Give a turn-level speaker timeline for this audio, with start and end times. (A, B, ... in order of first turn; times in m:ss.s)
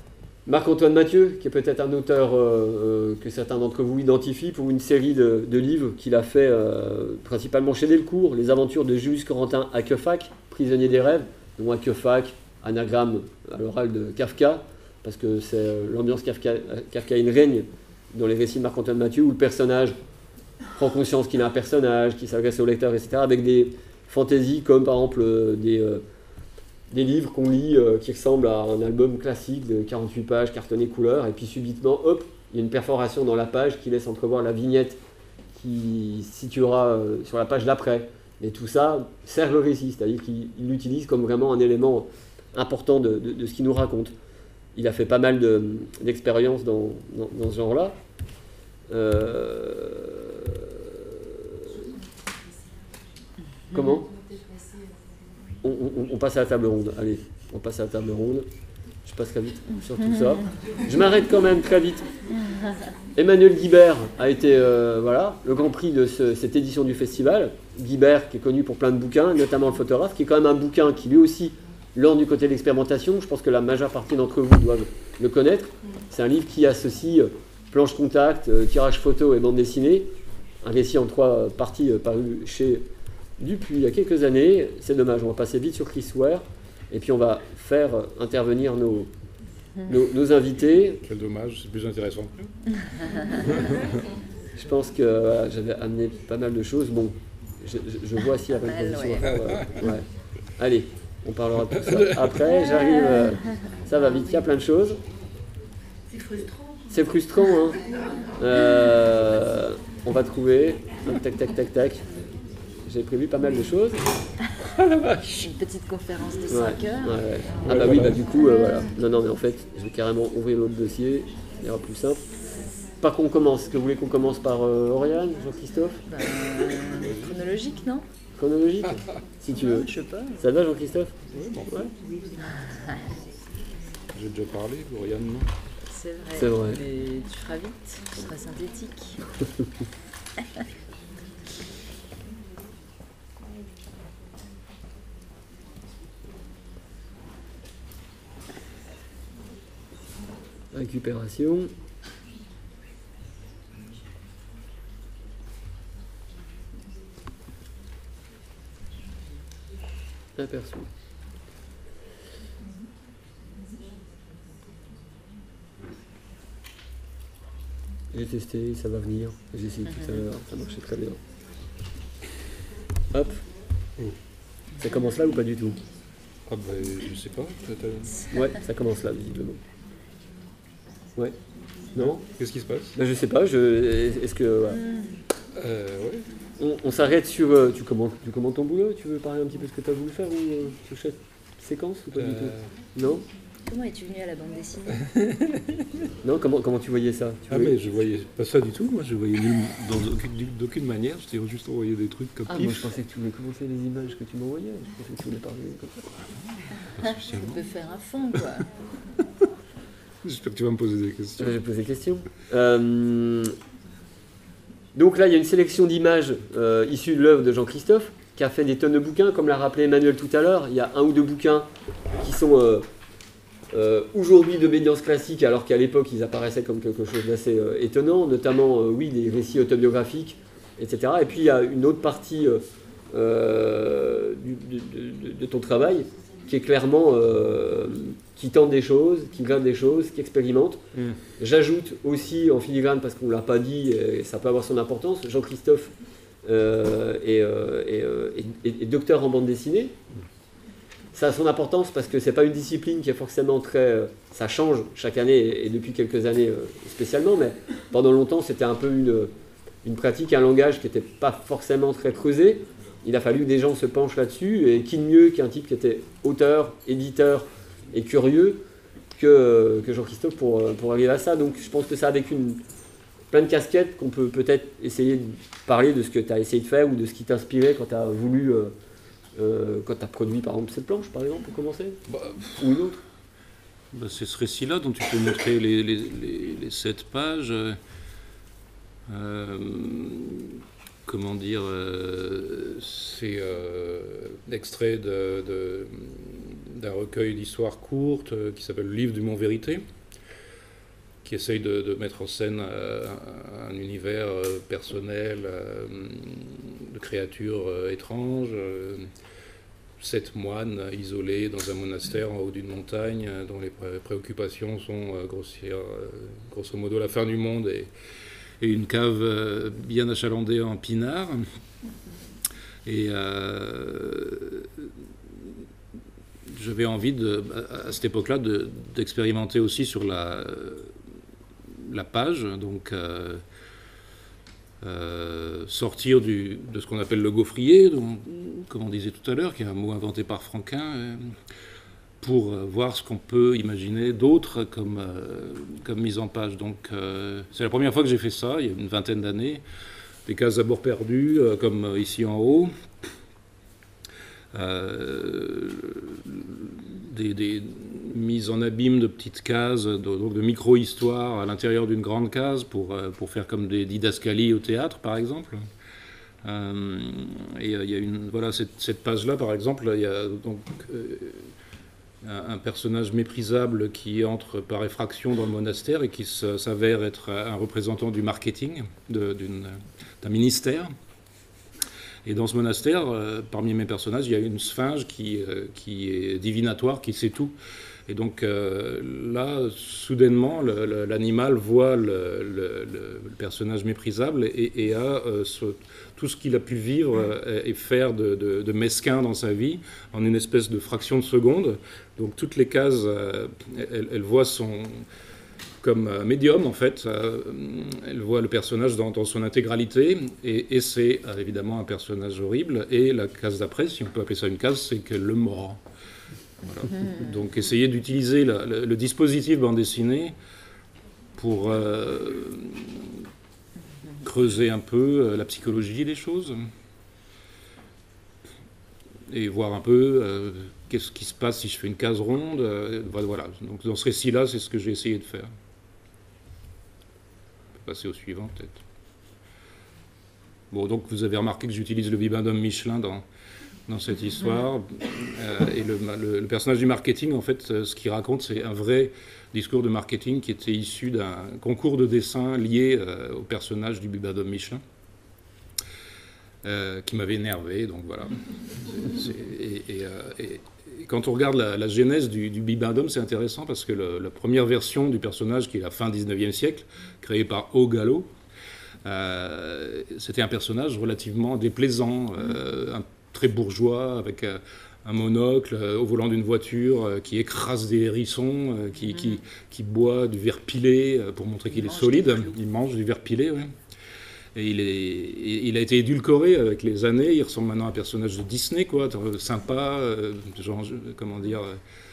0:00.5-0:20.0 A
0:20.8-0:26.0 A
0:26.9-0:35.0 A
0:35.6-0:44.1 A
0:44.8-0:48.0 A
0:48.9-0:51.8 A
0:53.7-0:54.1 A
0:55.6-0:58.5 A
0:59.0-1:02.1 A
1:03.2-1:22.9 A
1:23.4-1:29.1 A
1:29.8-1:31.0 A
1:31.0-1:32.5 B
1:33.4-1:33.9 B
1:34.6-1:40.1 A
1:38.7-1:39.4 C
1:40.6-1:45.0 A
1:41.9-1:42.3 B
1:46.9-1:47.8 A
1:48.4-1:52.0 A
1:52.8-1:54.1 A
1:54.8-1:55.4 B
1:55.4-1:57.1 C
1:56.5-2:02.2 A
1:57.7-1:58.2 B
2:03.0-2:06.0 A
2:06.1-2:08.0 C
2:08.4-2:11.2 A
2:09.7-2:10.4 C
2:11.3-2:11.9 B
2:12.0-2:13.0 C
2:14.1-2:15.5 B
2:15.9-2:19.2 C
2:16.3-2:16.8 A
2:30.7-2:31.7 A
2:40.4-2:40.9 A
2:48.1-2:51.2 A
2:53.1-2:53.4 A
2:54.8-2:55.8 A
2:56.5-2:58.2 B
2:58.3-2:59.6 A
3:01.9-3:02.2 A
3:02.0-3:03.0 B
3:03.0-3:04.8 A
3:05.6-3:06.3 B
3:06.6-3:13.2 A
3:12.2-3:12.7 B
3:13.7-3:15.1 C
3:15.2-3:15.8 B
3:16.2-3:17.8 A
3:17.5-3:22.9 B
3:22.5-3:26.1 A
3:27.0-3:27.6 B
3:27.3-3:28.7 C
3:30.2-3:31.6 B
3:31.4-3:33.6 A
3:34.9-3:41.7 A
3:42.2-3:42.9 A
3:43.7-4:00.8 A
4:01.4-4:05.9 A
4:06.4-4:10.0 A
4:11.1-4:19.3 A
4:19.8-4:28.6 A
4:29.2-4:32.6 A
4:33.3-4:38.7 A
4:39.4-4:42.0 A
4:42.1-4:42.6 B
4:42.6-4:43.0 A
4:43.9-4:47.8 B
4:49.1-4:59.8 B
5:01.2-5:09.1 B
5:10.0-5:17.9 B
5:18.6-5:21.4 B
5:22.8-5:24.9 B
5:26.5-5:30.9 B
5:31.7-5:33.4 B
5:34.8-5:41.4 B
5:42.2-5:49.6 B
5:50.3-5:52.7 B
5:54.5-6:05.7 B
6:06.4-6:11.5 B
6:12.2-6:20.9 B
6:22.2-6:27.6 B
6:28.1-6:45.1 B
6:45.8-6:55.8 B
6:56.6-7:00.4 B
7:01.4-7:03.3 B
7:04.2-7:06.6 B
7:09.3-7:15.5 B
7:17.8-7:18.8 B
7:20.7-7:23.2 B
7:23.9-7:34.8 B
7:36.6-7:48.3 B
7:49.0-8:03.8 B
8:04.6-8:11.8 B